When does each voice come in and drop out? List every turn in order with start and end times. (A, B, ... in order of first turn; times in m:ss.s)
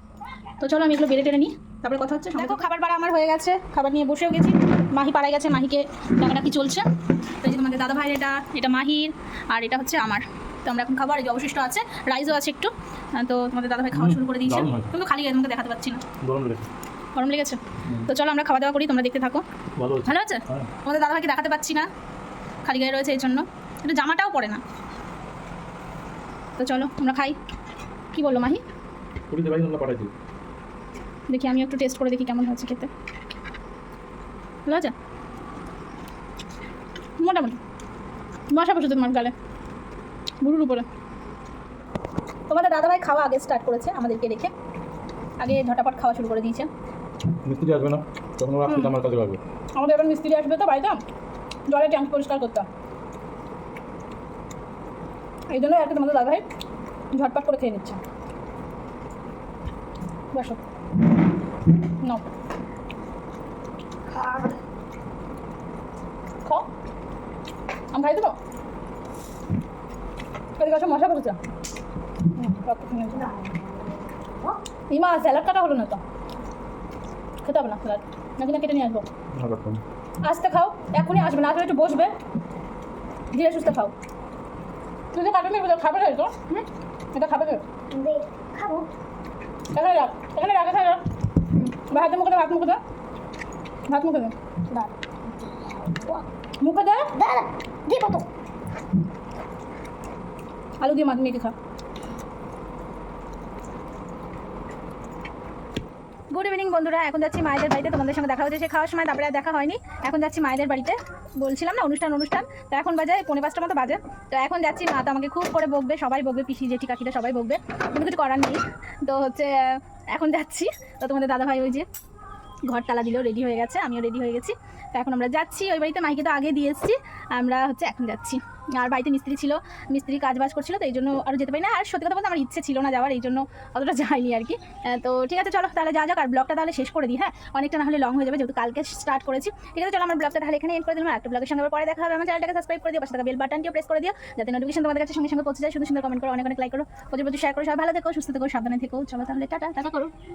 0:00.6-0:06.9 A
0:07.4-0:16.0 A
0:13.9-0:14.9 B
0:16.2-0:16.7 B
0:17.2-0:19.4 A
0:19.8-0:20.7 B
0:20.0-0:21.9 A
0:22.6-0:24.6 A
0:26.6-0:27.4 A
0:28.1-0:28.6 A
0:29.3-0:30.1 B
0:31.3-0:32.9 A
0:34.7-0:34.9 A
0:37.2-0:37.6 A
0:38.5-0:39.3 A
0:40.4-0:40.9 A
0:42.5-0:44.5 A
0:45.4-0:46.7 A
0:47.4-0:49.4 B
0:48.7-0:49.0 A
0:49.8-0:51.0 A
0:51.7-0:52.7 A
0:55.5-0:56.4 A
0:57.1-0:58.0 A
1:00.3-1:00.6 A
1:07.9-1:08.4 A
1:10.6-1:11.4 A
1:12.3-1:13.4 A
1:14.9-1:16.0 A
1:17.4-1:19.1 A
1:19.3-1:19.8 B
1:20.2-1:22.1 A
1:23.3-1:23.9 A
1:25.1-1:27.6 A
1:27.9-1:28.9 C
1:29.7-1:32.8 A
1:33.9-1:34.9 A
1:35.6-1:36.2 C
1:36.6-1:37.1 A
1:37.2-1:38.3 C
1:40.8-1:41.6 A
1:46.3-2:01.9 A
2:02.7-2:30.1 A